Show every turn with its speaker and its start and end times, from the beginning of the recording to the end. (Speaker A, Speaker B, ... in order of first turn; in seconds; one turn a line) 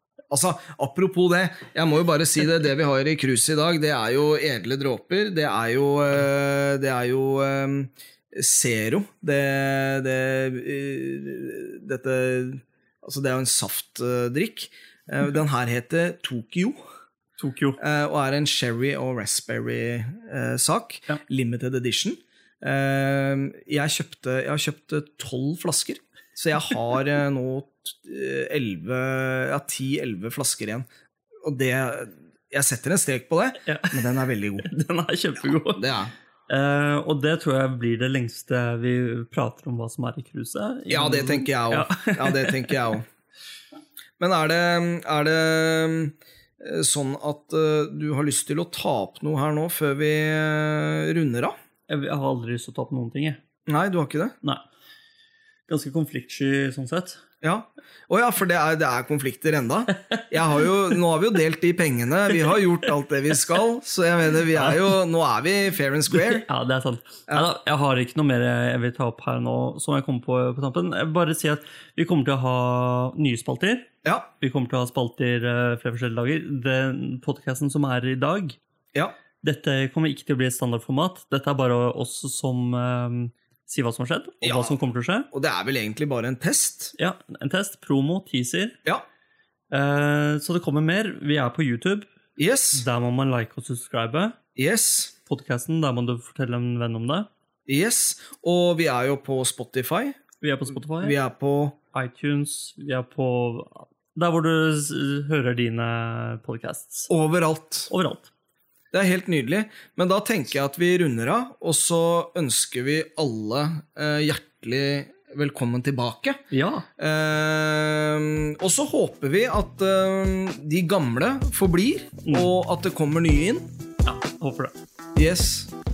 Speaker A: 0.3-16.8
Speaker B: 17.4-17.8
Speaker A: 17.8-30.9
Speaker A: 31.4-34.7
Speaker B: 33.6-34.1
Speaker B: 34.6-35.8
Speaker A: 35.6-36.1
Speaker B: 36.5-42.8
Speaker A: 40.9-43.0
Speaker A: 44.2-51.5
Speaker B: 51.9-53.4
Speaker A: 53.7-54.3
Speaker B: 55.7-57.2
Speaker A: 57.4-66.4
Speaker B: 64.5-64.9
Speaker B: 66.1-78.6
Speaker B: 79.4-85.3
Speaker A: 84.4-84.8
Speaker A: 85.3-86.9
Speaker B: 87.0-88.8
Speaker B: 89.7-92.0
Speaker A: 92.4-92.8
Speaker B: 92.7-94.4
Speaker A: 94.5-95.1
Speaker B: 95.2-97.3
Speaker A: 97.7-100.2
Speaker B: 100.4-101.2
Speaker A: 101.0-101.8
Speaker B: 101.9-107.1
Speaker A: 107.1-107.9
Speaker B: 107.9-108.3
Speaker A: 108.9-116.4
Speaker B: 116.5-116.8
Speaker A: 117.0-123.7
Speaker B: 122.2-122.5
Speaker B: 124.0-124.7
Speaker A: 125.2-125.7